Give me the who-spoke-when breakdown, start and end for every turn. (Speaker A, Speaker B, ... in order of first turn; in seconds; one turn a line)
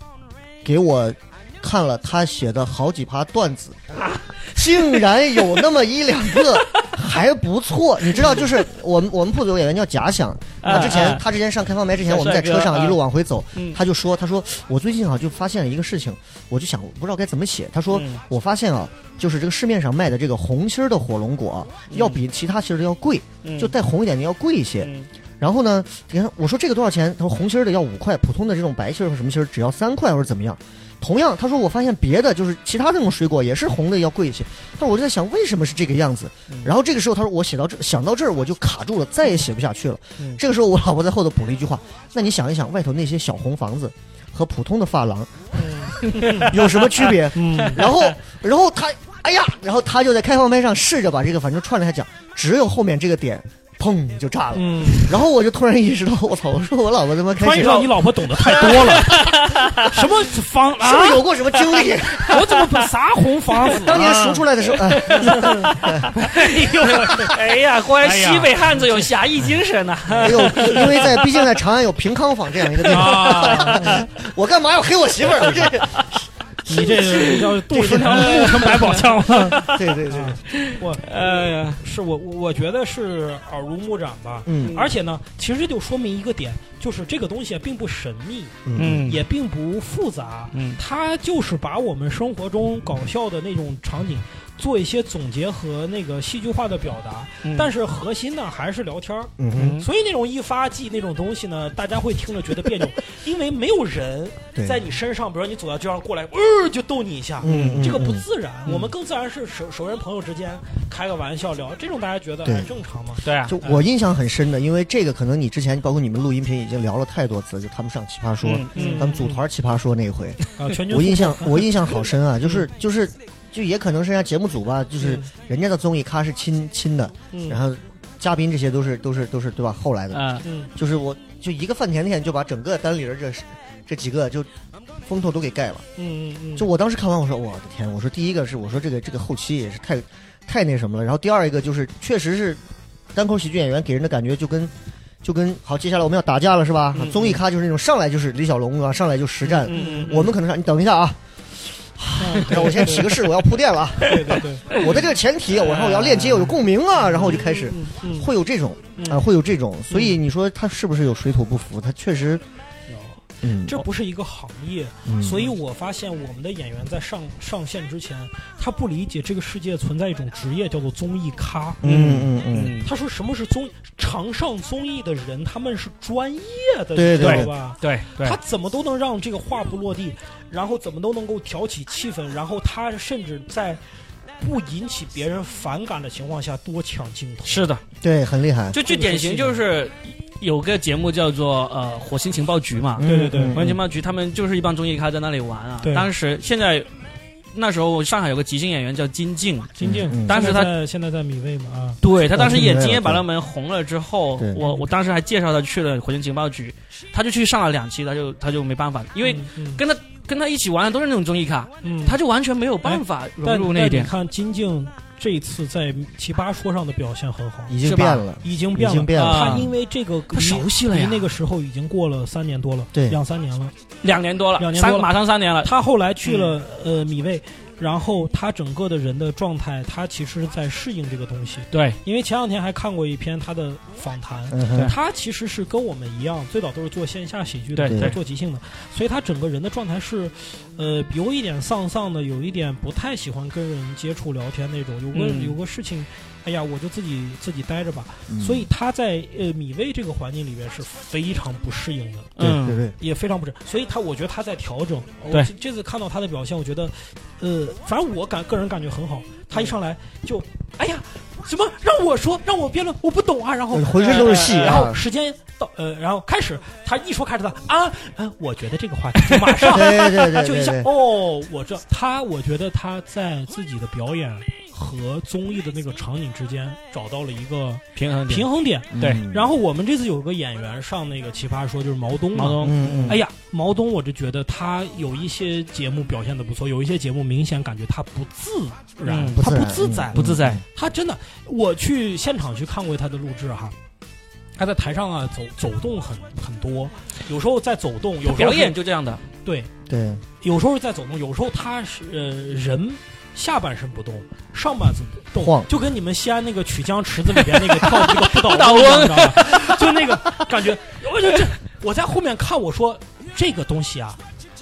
Speaker A: 0.6-57.8
Speaker B: 6.4-6.9
Speaker B: 8.1-8.5
Speaker B: 10.6-11.2
Speaker B: 12.0-13.0
Speaker B: 17.9-18.2
Speaker B: 21.9-22.2
Speaker B: 23.4-23.7
Speaker B: 24.8-25.1
Speaker B: 45.8-48.1
Speaker C: 46.1-46.5
Speaker C: 47.3-47.8
Speaker C: 54.5-55.1
Speaker C: 57.4-61.3
Speaker B: 57.6-57.9
Speaker B: 58.5-59.9
Speaker A: 58.6-59.0
Speaker A: 60.8-62.4
Speaker B: 61.8-62.5
Speaker C: 62.2-64.3
Speaker B: 63.7-71.5
Speaker A: 63.9-66.0
Speaker C: 65.2-67.3
Speaker C: 68.0-69.0
Speaker A: 70.2-76.0
Speaker C: 70.2-70.8
Speaker B: 72.8-74.0
Speaker C: 72.9-73.9
Speaker B: 75.4-76.1
Speaker A: 76.7-78.5
Speaker C: 76.7-113.8
Speaker B: 76.8-79.8
Speaker A: 79.6-80.4
Speaker B: 80.5-81.8
Speaker A: 84.5-84.8
Speaker B: 84.6-84.8
Speaker A: 88.6-89.1
Speaker B: 88.8-89.2
Speaker B: 90.5-90.8
Speaker B: 97.4-97.7
Speaker A: 99.4-99.8
Speaker B: 99.5-99.8
Speaker A: 104.5-104.8
Speaker A: 107.4-108.2
Speaker B: 107.4-107.9
Speaker A: 112.4-112.7
Speaker B: 113.2-113.5
Speaker A: 113.5-134.5
Speaker B: 118.4-119.0
Speaker C: 118.7-119.4
Speaker C: 120.6-121.7
Speaker C: 125.0-125.3
Speaker C: 127.3-127.6
Speaker B: 130.1-130.4
Speaker C: 130.4-130.7
Speaker A: 135.1-135.8
Speaker C: 136.0-136.7
Speaker A: 136.6-142.6
Speaker A: 143.1-144.7
Speaker A: 145.2-162.4
Speaker B: 146.9-147.4
Speaker C: 149.6-150.3
Speaker B: 149.7-150.2
Speaker C: 152.2-153.1
Speaker C: 154.0-154.8
Speaker C: 155.6-158.3
Speaker C: 159.0-159.2
Speaker C: 159.9-160.2
Speaker C: 162.9-171.8
Speaker A: 163.4-163.8
Speaker A: 165.1-165.5
Speaker A: 171.8-172.8
Speaker B: 171.8-172.9
Speaker C: 172.8-183.8
Speaker A: 176.9-177.5
Speaker B: 177.2-178.4
Speaker C: 184.4-187.6
Speaker B: 187.4-187.8
Speaker A: 188.0-188.8
Speaker B: 188.7-196.9
Speaker C: 188.8-189.6
Speaker A: 193.0-193.8
Speaker C: 193.0-193.6
Speaker C: 195.8-196.1
Speaker B: 197.5-200.7
Speaker C: 199.8-202.0
Speaker A: 199.8-200.5
Speaker B: 202.0-214.1
Speaker A: 202.3-203.2
Speaker C: 204.6-204.8
Speaker C: 209.2-209.8
Speaker C: 211.8-212.2
Speaker C: 212.8-217.8
Speaker A: 217.7-219.7
Speaker B: 217.8-218.2
Speaker C: 218.4-223.7
Speaker B: 219.1-219.7
Speaker B: 220.3-221.3
Speaker A: 222.9-223.2
Speaker B: 224.0-225.7
Speaker C: 224.6-225.1
Speaker C: 225.6-252.4
Speaker B: 226.2-226.5
Speaker B: 231.7-232.0
Speaker A: 234.5-234.9
Speaker B: 237.8-238.1
Speaker A: 237.9-238.1
Speaker B: 245.1-245.6
Speaker A: 248.3-248.7
Speaker B: 252.4-252.8
Speaker A: 252.4-252.9
Speaker C: 253.0-293.8
Speaker A: 263.7-265.0
Speaker B: 264.0-264.9
Speaker A: 269.7-270.9
Speaker B: 277.9-278.5
Speaker A: 278.9-279.5
Speaker B: 279.0-279.2
Speaker B: 282.3-283.2
Speaker A: 282.6-283.2
Speaker B: 289.1-289.4
Speaker A: 289.4-290.6
Speaker B: 290.1-290.6
Speaker C: 294.6-298.7
Speaker B: 298.2-299.2
Speaker C: 299.4-299.7
Speaker A: 299.9-300.2
Speaker C: 300.4-314.2
Speaker A: 305.4-305.7
Speaker B: 307.8-309.8